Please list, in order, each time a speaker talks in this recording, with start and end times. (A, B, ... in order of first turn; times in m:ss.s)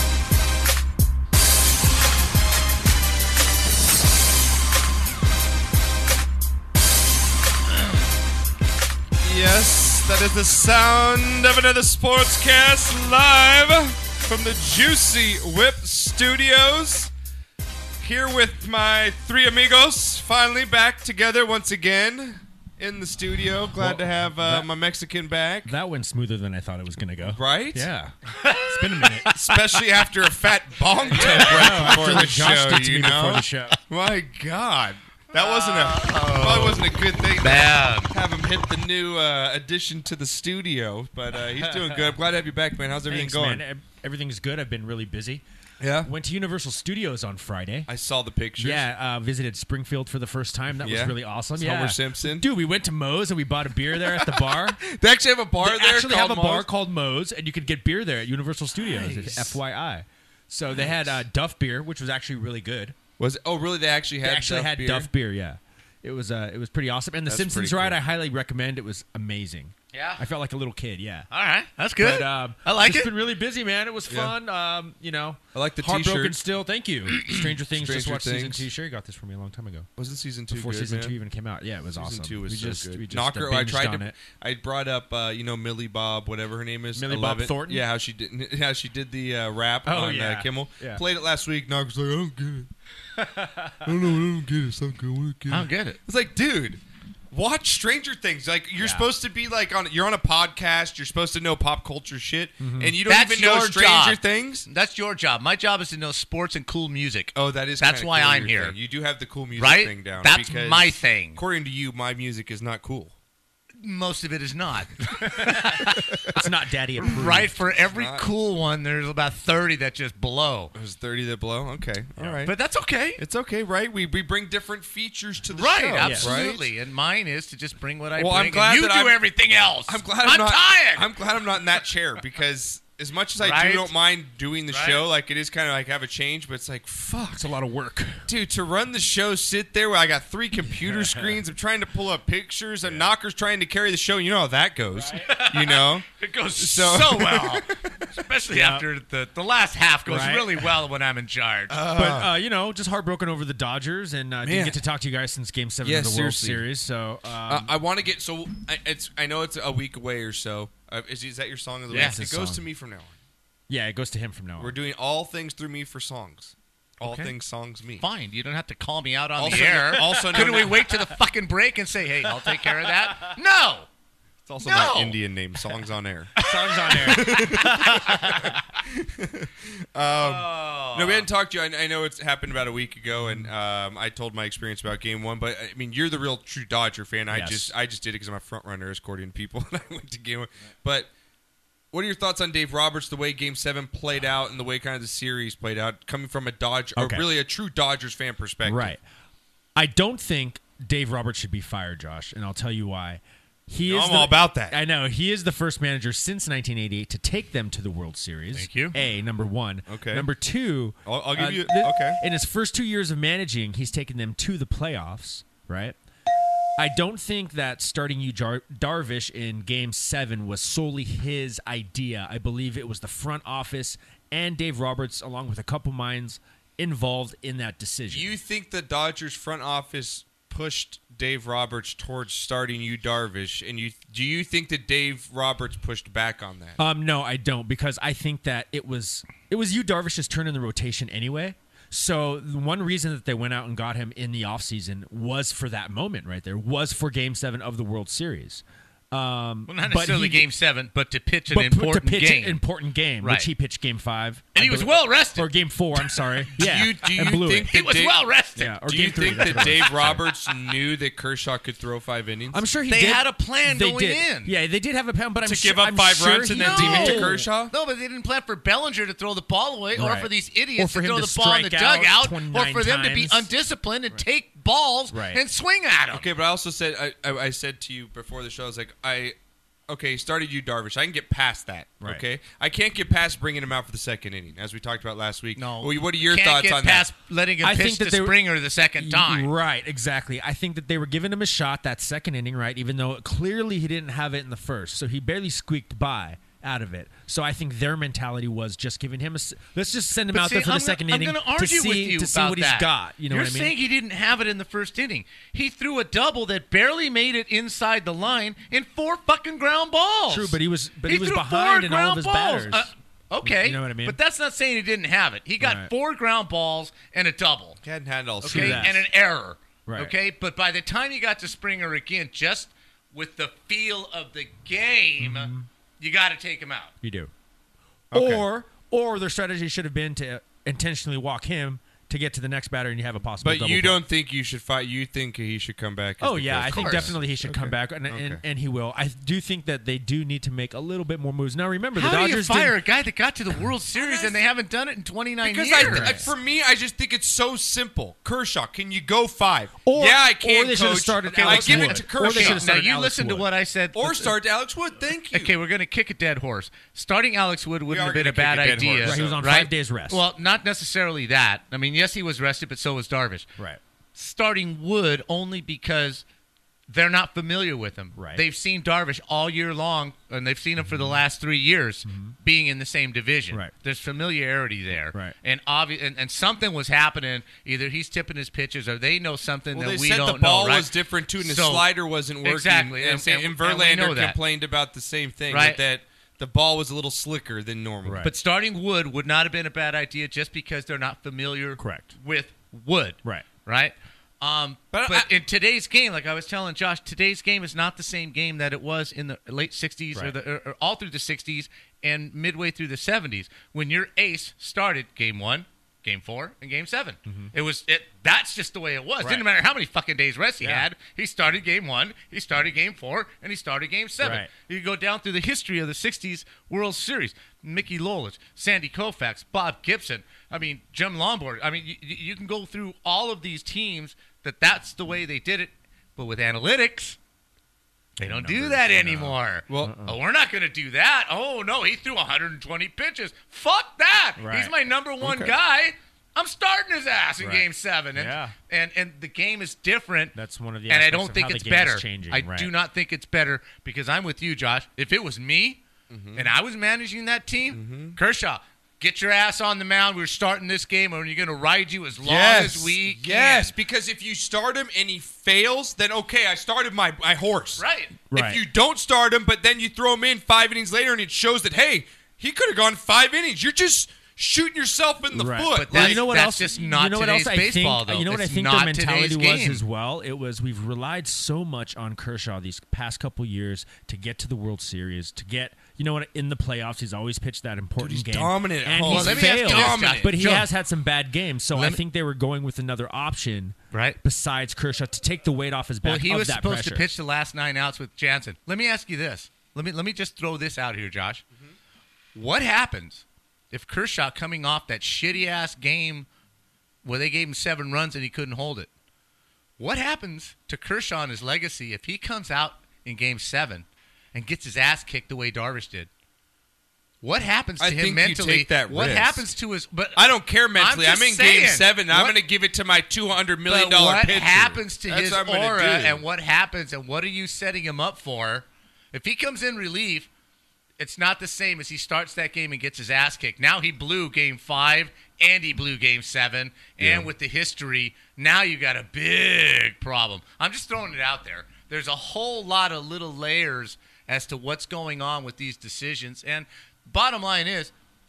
0:09.2-0:17.1 A
0:18.0-0:25.7 A
0:23.8-0:24.7 B
0:25.6-0:29.3 B
0:27.2-0:27.9 A
0:28.4-0:29.4 C
0:29.3-0:43.6 A
0:31.1-0:33.8 B
0:31.2-0:32.0 C
0:35.3-0:38.1 C
0:41.6-0:42.1 B
0:43.1-0:45.4 B
0:45.8-0:46.1 A
0:46.0-0:47.9 B
0:47.9-0:48.8 A
0:48.6-0:54.8 B
0:50.8-0:52.5 A
0:53.9-0:56.7 A
0:55.6-1:03.0 B
0:58.8-0:59.5 C
1:00.7-1:01.2 A
1:03.2-1:05.1 A
1:04.2-1:11.3 B
1:07.2-1:08.0 A
1:09.9-1:10.2 C
1:11.3-1:13.1 C
1:12.0-1:19.9 B
1:14.1-1:14.3 A
1:15.5-1:16.4 A
1:17.1-1:18.7 A
1:20.0-1:21.1 A
1:20.5-1:24.1 B
1:22.0-1:32.7 A
1:27.0-1:27.8 B
1:29.8-1:31.0 B
1:33.2-1:33.7 B
1:33.8-1:44.7 A
1:35.5-1:36.0 C
1:38.8-1:39.1 B
1:42.6-1:43.0 B
1:43.0-1:48.8 C
1:47.3-1:53.1 A
1:49.6-1:51.4 C
1:53.8-1:56.0 C
1:55.4-1:57.6 B
1:57.0-2:00.7 C
1:57.7-1:58.3 A
2:00.7-2:02.5 A
2:02.4-2:03.2 C
2:03.2-2:06.7 A
2:05.5-2:11.1 C
2:06.0-2:06.3 B
2:08.2-2:09.2 A
2:09.8-2:17.5 A
2:13.4-2:13.9 C
2:14.7-2:15.0 C
2:17.4-2:18.3 B
2:18.3-2:26.1 A
2:20.7-2:21.4 B
2:25.0-2:25.2 B
2:25.2-2:31.8 C
2:26.6-2:27.9 A
2:28.5-2:28.8 B
2:30.1-2:30.5 B
2:31.7-2:32.3 A
2:31.9-2:37.7 B
2:34.4-2:34.8 A
2:35.8-2:36.7 A
2:37.5-2:43.2 A
2:41.9-2:42.7 B
2:41.9-2:42.2 C
2:43.7-2:44.8 B
2:44.6-2:48.1 A
2:47.0-2:47.3 B
2:48.0-2:53.9 C
2:49.4-2:50.9 A
2:54.4-2:56.4 A
2:54.6-2:55.2 C
2:56.4-2:58.4 B
2:56.4-2:58.2 C
2:56.9-3:11.1 A
3:00.1-3:01.3 C
3:03.2-3:03.5 B
3:07.3-3:07.7 B
3:11.9-3:19.0 A
3:17.0-3:17.3 B
3:18.6-3:19.0 B
3:19.8-3:36.0 B
3:23.8-3:24.8 A
3:28.5-3:29.0 C
3:29.9-3:30.3 A
3:31.0-3:32.2 A
3:36.8-3:48.3 B
3:48.1-3:56.8 A
3:56.8-4:10.4 B
4:09.7-4:12.6 C
4:11.5-4:17.7 B
4:13.2-4:13.5 C
4:14.5-4:15.5 C
4:16.6-4:22.6 A
4:17.7-4:18.8 C
4:18.6-4:20.2 B
4:19.3-4:20.2 C
4:22.5-4:27.5 B
4:22.9-4:24.5 C
4:25.4-4:27.7 A
4:26.5-4:36.3 C
4:30.0-4:33.5 B
4:35.1-4:35.4 B
4:36.1-4:39.4 A
4:39.9-4:47.1 A
4:45.6-4:49.5 C
4:47.6-4:48.4 B
4:49.0-5:03.7 B
5:00.3-5:17.8 C
5:10.3-5:12.9 B
5:13.4-5:14.2 B
5:15.6-5:15.9 B
5:17.8-5:19.0 A
5:18.4-5:19.0 B
5:18.4-5:26.9 C
5:19.9-5:20.1 B
5:25.2-5:25.7 B
5:27.0-5:27.3 B
5:28.1-5:28.5 A
5:28.1-5:34.0 B
5:33.4-5:38.4 A
5:36.2-5:42.8 B
5:36.7-5:37.2 C
5:42.0-5:46.3 C
5:44.0-5:44.4 A
5:45.4-5:52.6 A
5:45.8-5:46.3 B
5:49.8-5:53.5 B
5:51.3-5:54.4 C
5:53.9-5:55.5 A
5:55.3-6:03.5 C
5:57.9-5:59.4 A
5:59.0-6:00.2 B
6:04.2-6:06.2 C
6:06.9-6:21.9 C
6:08.2-6:08.4 B
6:10.8-6:11.2 B
6:12.0-6:12.4 B
6:19.7-6:28.3 A
6:22.4-6:24.4 C
6:25.5-6:25.8 C
6:28.0-6:28.3 B
6:28.2-7:07.2 C
6:31.8-6:32.1 B
6:34.9-6:35.3 A
6:47.3-6:47.5 B
6:50.6-6:50.9 B
6:54.2-6:54.5 B
7:08.2-7:20.4 C
7:08.2-7:10.2 B
7:09.7-7:10.0 A
7:14.4-7:14.7 B
7:15.2-7:15.6 A
7:17.4-7:18.5 B
7:20.4-7:22.7 B
7:20.9-7:25.8 C
7:26.1-7:26.5 A
7:26.4-7:33.7 C
7:27.7-7:28.2 A
7:32.2-7:46.3 A
7:37.8-7:38.2 C
7:38.3-7:38.6 B
7:45.3-8:07.0 B
7:45.8-7:49.8 C
7:58.0-8:00.3 A
7:59.0-8:00.7 C
8:01.8-8:02.0 C
8:03.9-8:04.2 C
8:06.0-8:11.4 C
8:12.4-8:16.3 C
8:17.0-8:18.9 C
8:19.8-8:26.1 C
8:27.2-8:32.4 C
8:27.8-8:29.5 A
8:30.2-8:36.2 A
8:33.7-8:40.3 C
8:41.0-8:57.9 C
8:47.0-8:47.3 A